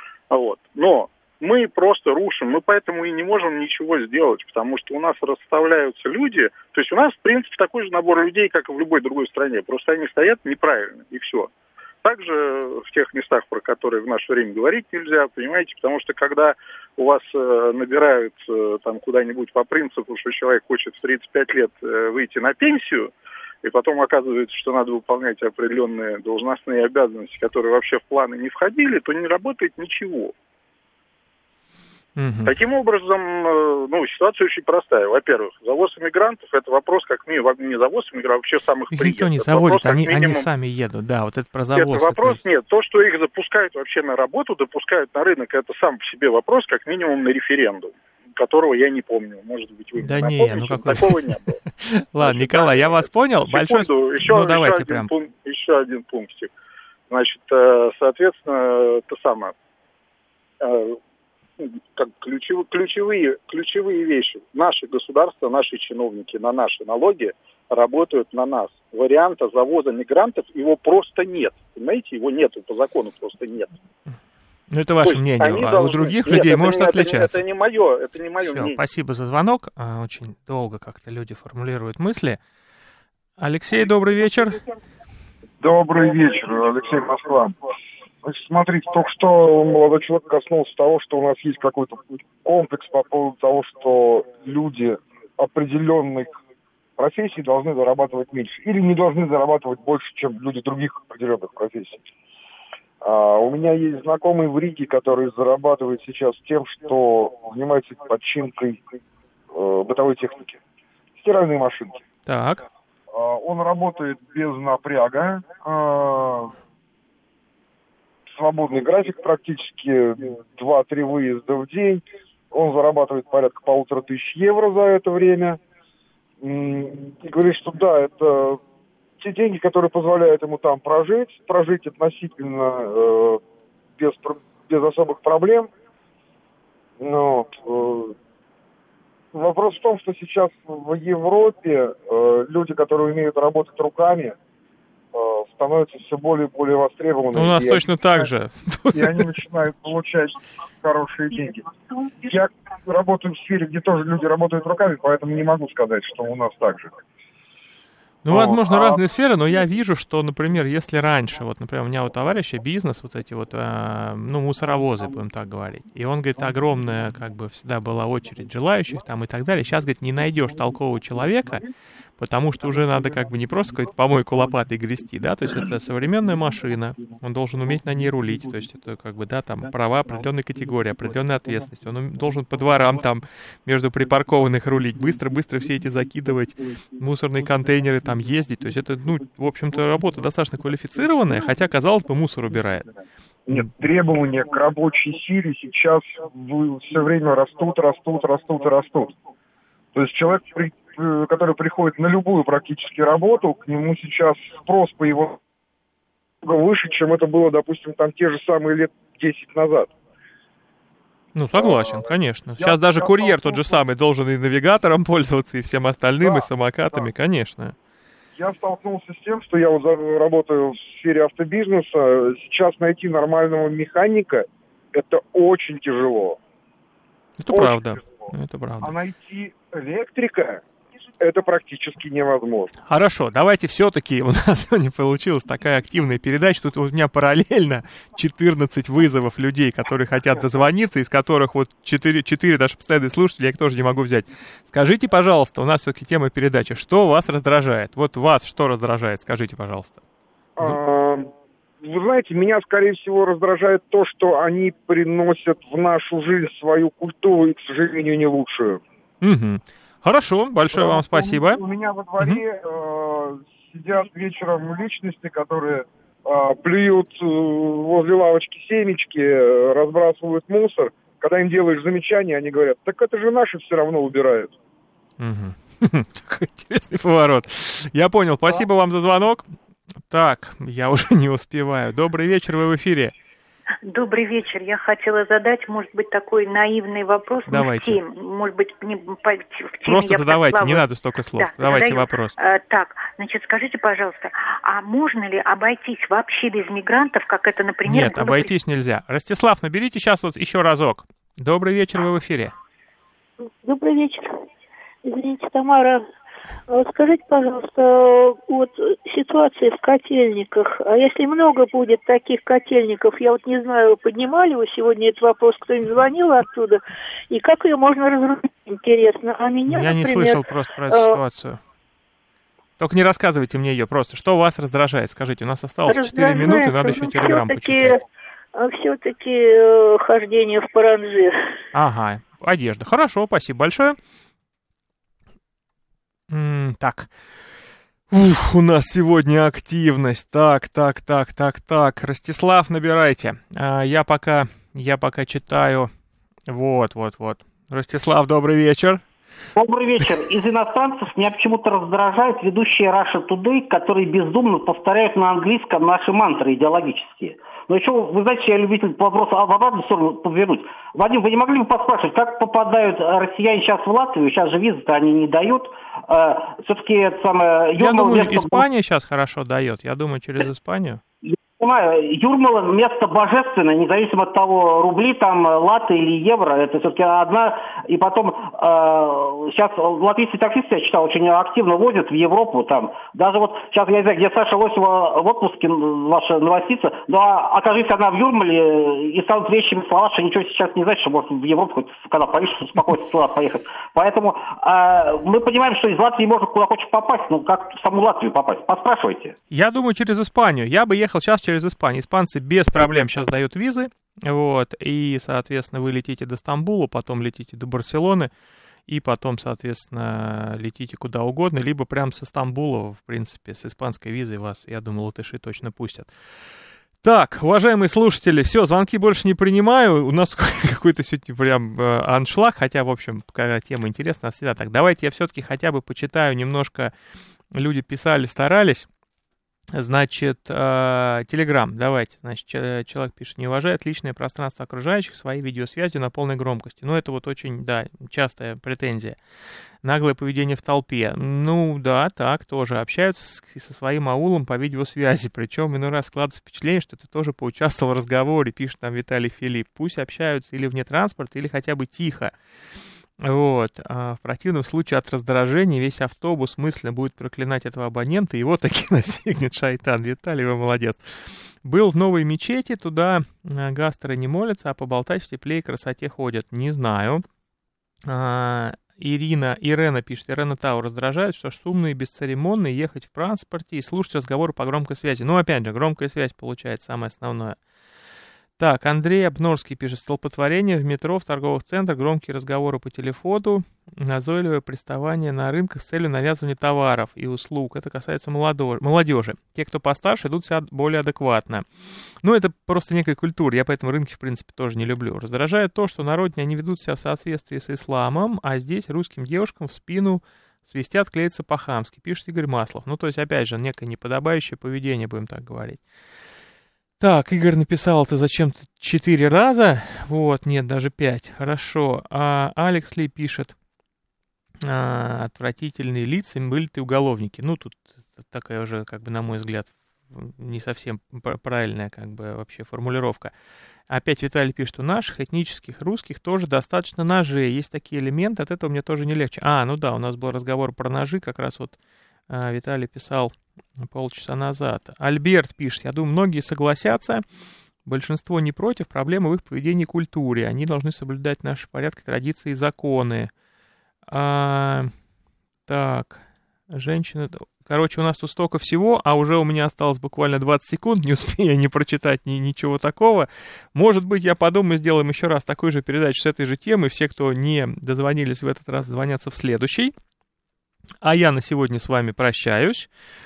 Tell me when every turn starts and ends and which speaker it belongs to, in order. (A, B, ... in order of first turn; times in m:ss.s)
0:00.3-0:11.5 A
0:12.0-0:23.1 A
0:23.6-0:30.3 A
0:32.2-0:32.5 B
0:32.4-0:40.5 A
0:38.9-0:42.4 B
0:41.8-0:51.6 A
0:50.0-0:55.1 B
0:52.2-0:56.5 A
0:57.1-0:59.5 A
1:00.6-1:01.0 A
1:01.6-1:13.7 A
1:14.7-1:17.4 B
1:15.0-1:18.8 A
1:18.4-1:22.4 B
1:23.4-1:24.6 B
1:25.6-1:27.6 C
1:28.2-1:36.4 C
1:37.0-1:42.0 C
1:43.0-1:49.0 C
1:49.5-1:50.6 C
1:51.2-1:52.0 C
1:52.2-1:52.6 B
1:53.1-1:56.5 C
1:58.3-2:05.6 C
2:06.4-2:08.6 C
2:09.2-2:13.4 C
2:14.0-2:15.7 C
2:17.0-2:18.1 C
2:19.3-2:24.4 C
2:25.1-2:28.3 C
2:27.3-2:29.3 B
2:28.9-2:31.7 C
2:32.2-2:37.0 C
2:38.2-2:51.7 B
2:38.3-2:39.0 C
2:52.2-3:12.9 B
3:13.5-3:19.1 C
3:19.9-3:25.4 C
3:26.4-3:29.9 C
3:31.3-3:37.7 B
3:31.6-3:32.0 C
3:32.6-3:33.8 C
3:36.2-3:37.1 C
3:38.4-3:46.4 C
3:47.4-3:48.9 B
3:47.5-3:48.3 C
3:48.8-3:50.6 C
3:51.2-3:52.7 C
3:52.8-4:10.0 B
4:10.6-4:18.8 C
4:19.2-4:21.6 B
4:20.7-4:34.5 C
4:35.2-4:39.5 B
4:40.1-4:43.1 B
4:43.8-4:58.5 D
4:47.5-4:48.0 B
4:49.8-4:52.3 B
4:57.9-5:02.5 B
5:03.6-5:04.3 E
5:05.0-5:06.0 E
5:06.7-5:21.2 E
5:19.7-5:21.6 B
5:22.8-5:28.0 B
5:25.9-5:28.0 E
5:28.5-5:31.3 E
5:31.7-5:34.0 B
5:36.3-5:37.1 B
5:38.1-5:45.9 B
5:46.5-5:49.0 B
5:49.6-6:08.6 F
6:07.8-6:11.0 B
6:11.2-6:39.4 F
6:39.5-6:48.3 B
6:48.9-6:56.1 B
6:57.0-7:06.9 B
7:07.5-7:08.9 B
7:09.7-7:19.2 B
7:19.8-7:32.3 B
7:33.2-7:41.0 B
7:41.6-7:47.2 B
7:48.1-7:57.6 B
7:58.6-8:11.6 B
8:12.2-8:25.8 B
8:27.0-8:33.5 B
8:34.6-8:43.3 B
8:43.9-8:51.8 B
8:52.3-8:53.3 B
8:53.8-8:57.2 B
8:57.8-9:03.3 B
9:04.1-9:04.9 B
9:05.7-9:19.9 B
9:21.0-9:22.9 B